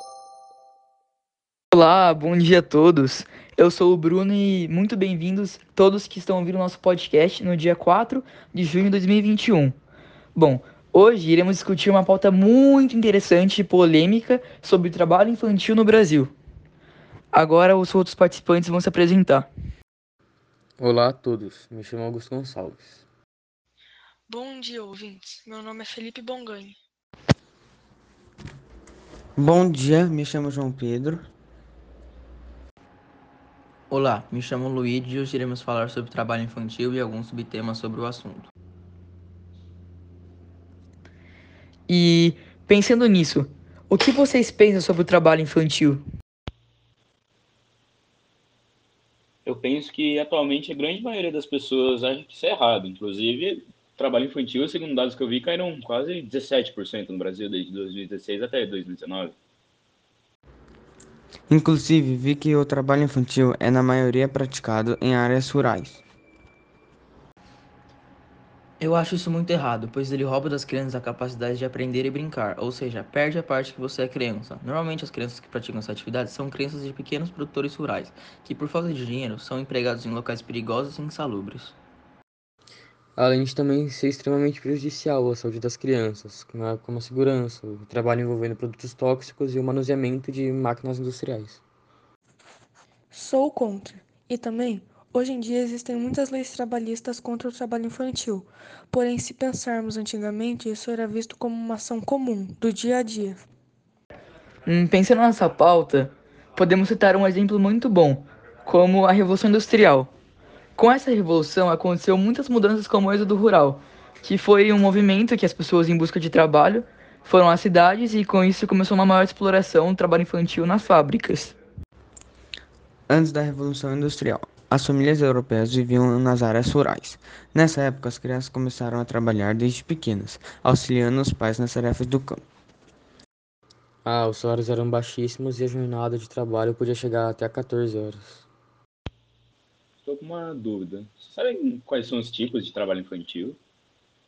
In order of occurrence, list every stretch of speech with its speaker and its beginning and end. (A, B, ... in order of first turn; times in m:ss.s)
0:01.7-0:09.8 A
0:10.4-0:16.3 A
0:17.3-0:19.5 A
0:20.8-0:23.0 B
0:24.3-0:26.8 C
0:29.4-0:31.3 D
0:33.9-0:38.5 E
0:41.9-0:46.0 A
0:49.5-0:59.4 F
1:01.5-1:06.0 D
1:08.8-1:21.8 E
1:23.2-1:31.6 B
1:33.1-1:43.4 C
1:44.7-1:50.1 A
1:50.8-2:01.6 A
2:03.1-2:12.4 D
2:14.0-2:18.4 B
2:20.0-2:23.6 F